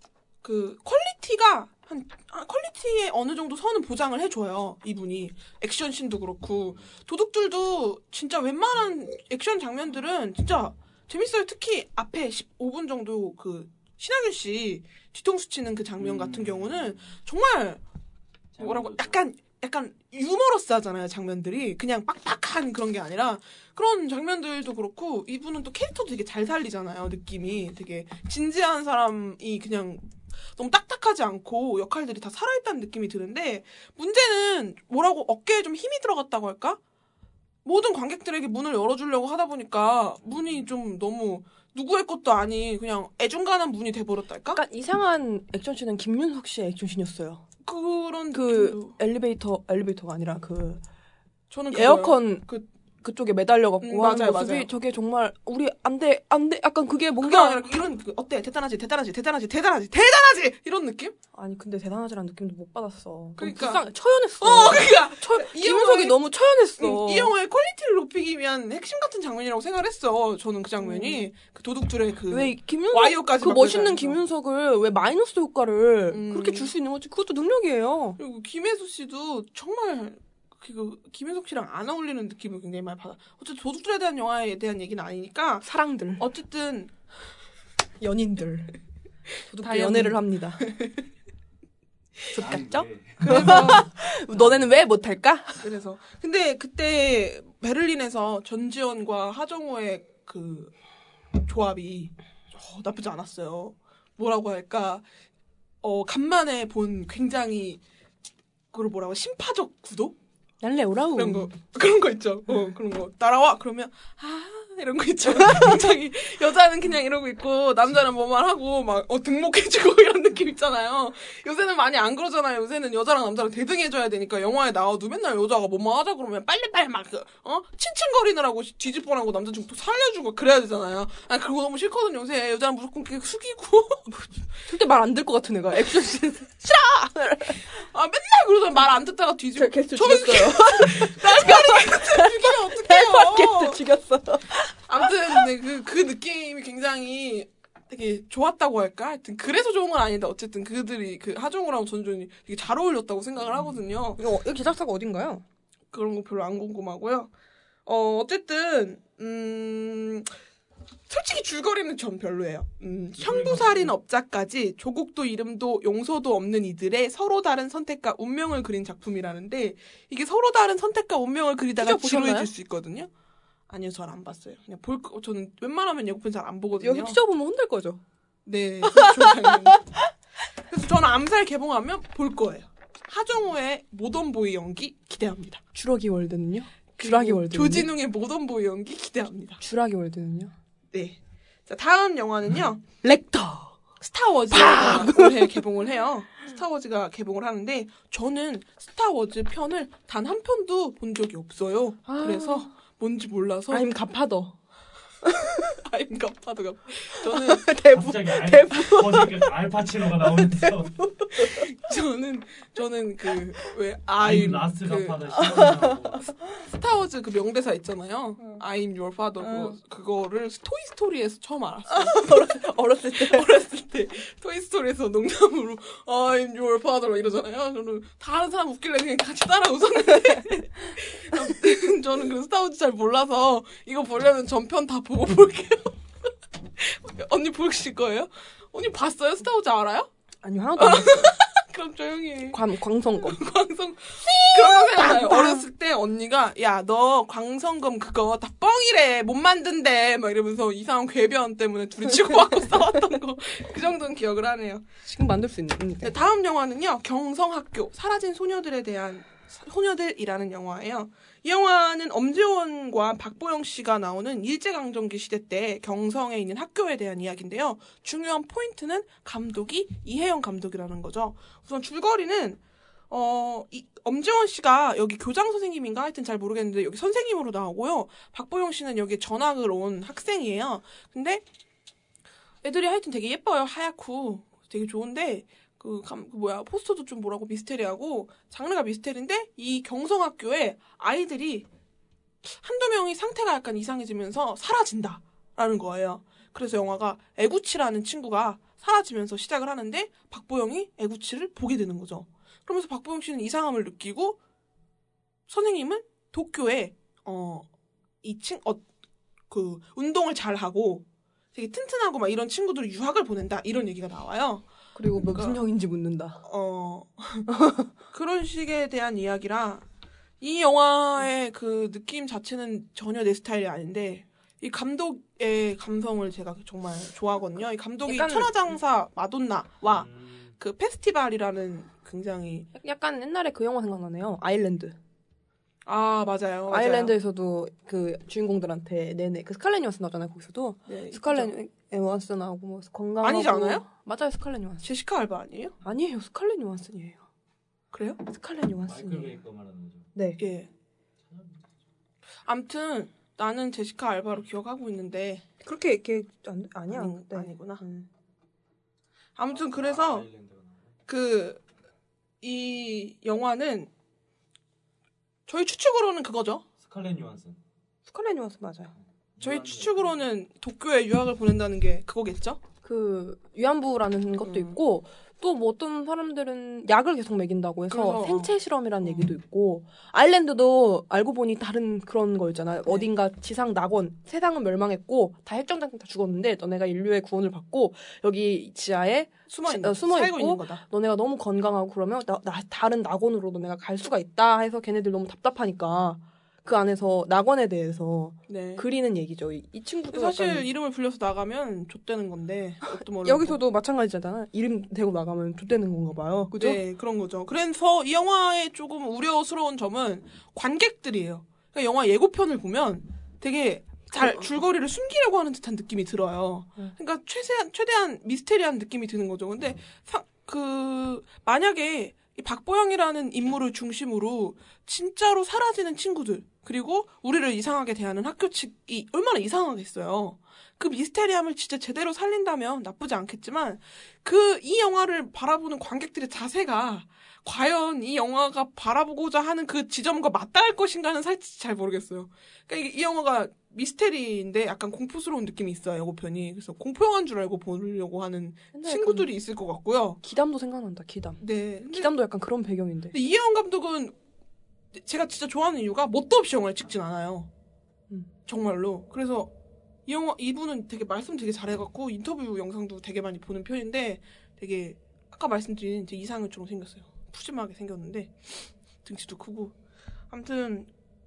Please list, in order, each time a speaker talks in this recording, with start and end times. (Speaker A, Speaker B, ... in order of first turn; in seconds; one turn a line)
Speaker A: 0.4-17.8
Speaker B: 16.0-17.2
Speaker B: 18.5-19.2
Speaker A: 18.6-36.8
Speaker A: 37.6-44.6
Speaker B: 40.2-40.6
Speaker C: 44.5-47.4
Speaker A: 47.6-49.0
Speaker C: 48.3-50.8
Speaker A: 51.5-52.7
Speaker C: 51.7-52.5
Speaker C: 53.0-57.6
Speaker A: 53.8-54.7
Speaker A: 57.2-61.1
Speaker C: 61.3-67.3
Speaker A: 63.4-63.8
Speaker A: 64.4-66.2
Speaker A: 66.8-74.2
Speaker C: 70.8-71.2
Speaker C: 72.3-78.2
Speaker A: 76.1-76.7
Speaker A: 78.2-85.6
Speaker C: 85.6-86.2
Speaker A: 86.2-86.9
Speaker C: 88.0-88.7
Speaker C: 89.5-90.7
Speaker A: 89.6-90.9
Speaker C: 92.3-95.6
Speaker B: 92.3-94.8
Speaker A: 93.2-93.9
Speaker A: 95.6-100.7
Speaker A: 101.4-105.0
Speaker A: 105.8-107.8
Speaker A: 108.7-110.2
Speaker C: 110.6-111.5
Speaker A: 111.1-134.1
Speaker C: 134.1-137.6
Speaker A: 137.8-143.8
Speaker C: 139.6-144.8
Speaker A: 144.9-154.2
Speaker B: 153.4-153.8
Speaker C: 154.2-155.4
Speaker A: 155.9-157.3
Speaker A: 157.9-160.3
Speaker A: 161.1-173.1
Speaker B: 163.2-163.9
Speaker C: 171.8-172.5
Speaker A: 173.7-177.2
Speaker C: 176.8-178.0
Speaker A: 178.4-179.9
Speaker C: 178.9-179.5
Speaker A: 180.7-185.6
Speaker C: 185.7-187.9
Speaker A: 187.0-189.6
Speaker C: 189.6-190.5
Speaker A: 190.9-192.8
Speaker C: 193.0-193.8
Speaker A: 194.0-203.8
Speaker C: 194.5-195.6
Speaker C: 202.1-202.7
Speaker C: 203.7-204.6
Speaker A: 205.9-207.7
Speaker C: 207.2-209.5
Speaker B: 207.9-211.1
Speaker C: 210.4-211.6
Speaker A: 211.5-215.3
Speaker B: 214.2-216.4
Speaker C: 215.4-216.2
Speaker A: 216.7-222.6
Speaker C: 219.4-219.8
Speaker C: 221.9-223.5
Speaker A: 223.2-235.9
Speaker A: 236.8-240.1
Speaker C: 240.4-241.3
Speaker A: 240.8-242.6
Speaker C: 242.5-243.4
Speaker A: 243.2-254.9
Speaker C: 244.2-245.6
Speaker C: 255.1-256.1
Speaker A: 256.0-281.4
Speaker A: 282.6-291.7
Speaker A: 292.4-304.4
Speaker A: 305.5-307.7
Speaker A: 308.2-308.8
Speaker A: 309.5-315.6
Speaker C: 314.9-316.4
Speaker A: 316.4-317.5
Speaker C: 317.5-317.9
Speaker A: 318.1-319.9
Speaker A: 320.4-332.7
Speaker C: 328.1-328.5
Speaker B: 329.9-330.5
Speaker C: 332.7-334.9
Speaker A: 335.9-337.1
Speaker C: 336.7-344.9
Speaker A: 340.9-341.5
Speaker A: 343.2-343.9
Speaker A: 344.8-345.7
Speaker C: 345.8-347.2
Speaker A: 347.9-348.2
Speaker C: 348.2-349.4
Speaker B: 348.9-350.1
Speaker C: 350.1-350.4
Speaker A: 350.4-350.7
Speaker B: 351.3-351.6
Speaker A: 352.4-355.4
Speaker C: 355.6-358.1
Speaker A: 356.9-357.8
Speaker A: 359.4-360.3
Speaker B: 359.5-360.9
Speaker A: 361.1-361.6
Speaker A: 362.4-363.9
Speaker A: 365.5-366.7
Speaker B: 366.8-367.6
Speaker C: 368.1-368.9
Speaker B: 369.4-370.3
Speaker A: 369.4-372.6
Speaker C: 372.8-400.7
Speaker A: 374.4-374.7
Speaker A: 377.9-379.3
Speaker A: 389.5-390.8
Speaker A: 398.5-398.9
Speaker A: 400.1-403.6
Speaker C: 402.9-406.8
Speaker A: 406.6-450.2
Speaker C: 414.1-414.4
Speaker C: 448.7-449.3
Speaker C: 450.2-453.1
Speaker A: 451.4-452.1
Speaker A: 453.1-454.1
Speaker A: 454.9-457.5
Speaker A: 458.4-459.5
Speaker A: 460.1-469.7
Speaker A: 470.3-470.9